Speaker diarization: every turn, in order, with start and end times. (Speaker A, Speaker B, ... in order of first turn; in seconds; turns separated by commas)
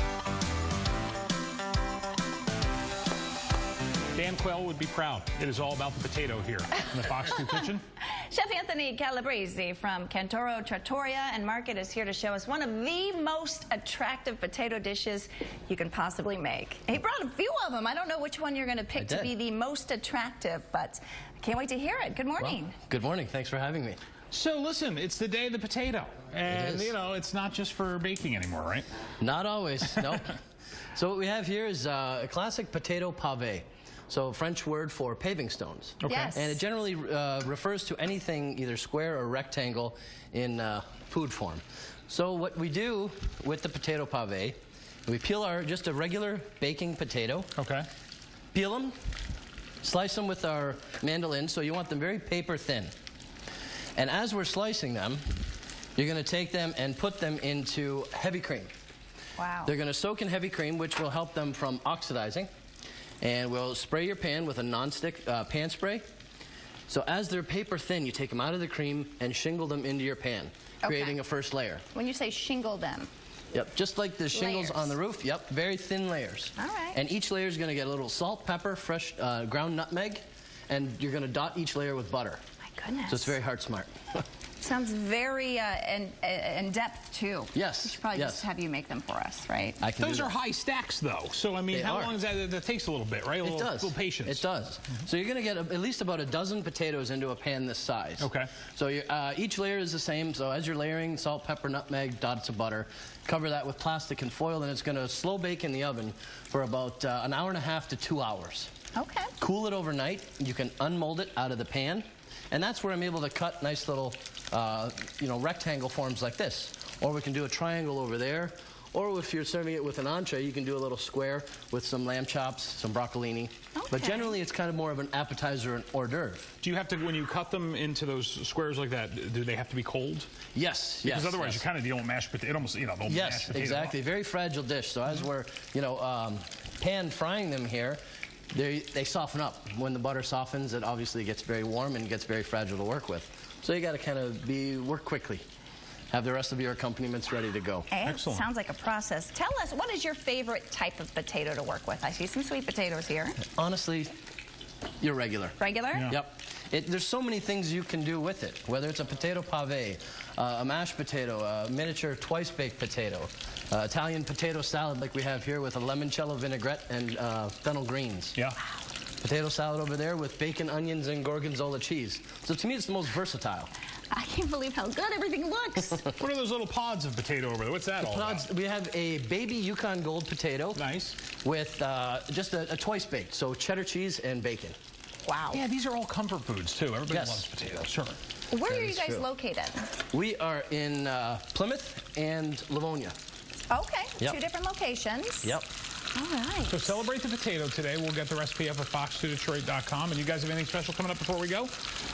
Speaker A: 4.1-7.8, Speaker B: 8.1-22.8, Speaker C: 18.9-19.3, Speaker C: 22.4-24.0, Speaker A: 24.3-28.9, Speaker C: 26.5-26.9, Speaker C: 29.2-30.4, Speaker C: 30.9-47.5, Speaker A: 36.0-36.3, Speaker B: 36.1-36.6, Speaker A: 47.5-47.9, Speaker C: 48.5-49.0, Speaker C: 49.8-52.9, Speaker C: 54.0-55.2, Speaker C: 56.0-58.7, Speaker B: 59.4-59.7, Speaker C: 59.6-62.5, Speaker C: 63.2-66.0, Speaker C: 66.9-71.8, Speaker B: 70.8-71.2, Speaker B: 71.9-73.1, Speaker C: 73.5-82.4, Speaker B: 74.3-74.9, Speaker B: 76.6-77.0, Speaker B: 82.8-83.3, Speaker C: 83.1-84.2, Speaker B: 84.6-89.8, Speaker C: 87.5-88.4, Speaker C: 89.8-90.3, Speaker A: 90.0-94.4, Speaker C: 91.7-92.2, Speaker C: 93.4-108.7, Speaker A: 98.2-98.5, Speaker B: 108.9-109.3, Speaker C: 109.4-126.6, Speaker B: 123.7-124.3, Speaker A: 126.6-130.3, Speaker C: 130.5-131.6, Speaker A: 131.0-133.9, Speaker C: 133.1-138.0, Speaker C: 138.5-145.4, Speaker C: 146.1-147.9, Speaker B: 147.9-153.4, Speaker A: 148.0-148.5, Speaker C: 153.5-154.1, Speaker C: 155.0-168.4, Speaker B: 155.6-156.1, Speaker A: 155.9-156.2, Speaker C: 169.2-173.7, Speaker B: 174.1-176.1, Speaker A: 176.1-178.4, Speaker C: 178.0-184.8, Speaker A: 180.7-181.2, Speaker B: 185.2-185.6, Speaker A: 185.5-188.2, Speaker C: 187.1-187.8, Speaker B: 188.5-189.9, Speaker C: 188.6-189.2, Speaker C: 190.1-193.1, Speaker B: 193.7-195.6, Speaker B: 196.1-197.0, Speaker A: 196.7-201.7